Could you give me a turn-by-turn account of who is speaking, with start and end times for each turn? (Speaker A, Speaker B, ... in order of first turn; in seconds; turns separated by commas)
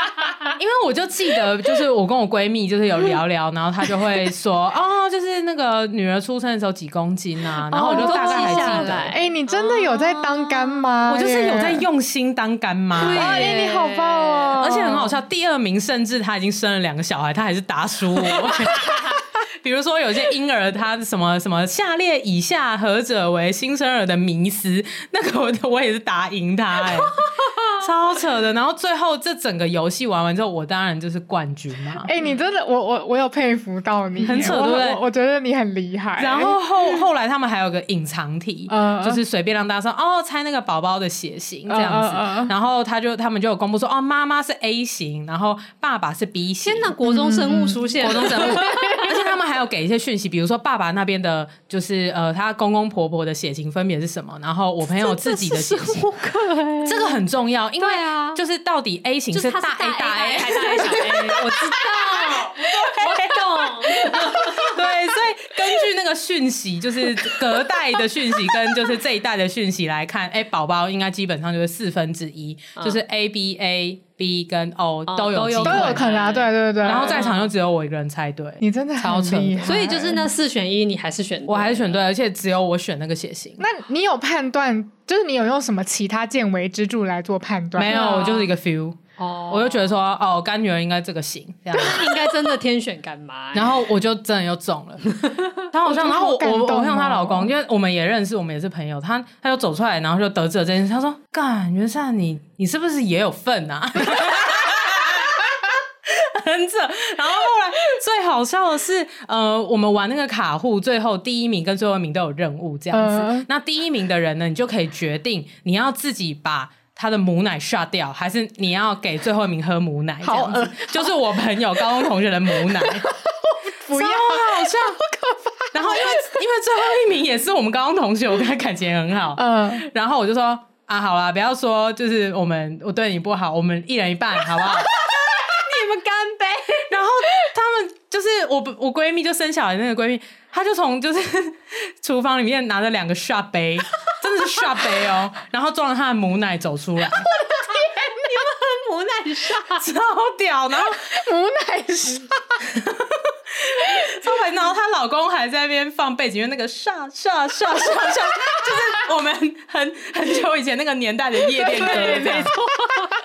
Speaker A: 0.4-9.1, Speaker B: 7.7-11.8, Speaker C: 7.8-10.9, Speaker A: 11.1-13.5, Speaker C: 13.0-14.6, Speaker B: 13.0-15.2, Speaker A: 14.6-32.1, Speaker B: 32.0-37.0, Speaker A: 34.2-35.0, Speaker A: 36.2-46.9, Speaker B: 38.7-39.2, Speaker B: 41.7-42.5, Speaker C: 46.6-49.1, Speaker B: 47.0-49.1, Speaker A: 48.0-56.1, Speaker C: 55.0-57.2, Speaker A: 56.8-61.6, Speaker C: 57.8-58.4, Speaker C: 59.3-64.7, Speaker A: 62.6-76.1, Speaker C: 75.1-77.3, Speaker B: 75.6-77.3, Speaker A: 76.8-79.8, Speaker B: 78.6-80.3, Speaker C: 79.6-82.0, Speaker A: 81.5-83.6, Speaker B: 83.6-88.1, Speaker A: 87.8-92.1, Speaker C: 87.8-88.5, Speaker C: 89.2-89.9, Speaker C: 91.7-93.8, Speaker A: 93.5-95.0, Speaker A: 95.6-123.1, Speaker B: 95.8-97.5, Speaker B: 112.9-113.5, Speaker B: 120.2-121.2, Speaker B: 122.7-123.0, Speaker B: 123.6-126.3, Speaker A: 123.9-125.0, Speaker A: 125.7-134.9, Speaker B: 129.3-129.8, Speaker C: 135.3-136.9, Speaker A: 136.9-147.3, Speaker B: 147.4-148.2, Speaker C: 147.8-149.8, Speaker A: 149.7-151.1, Speaker B: 151.0-152.6, Speaker A: 152.6-162.5, Speaker B: 161.5-163.0, Speaker C: 162.7-163.0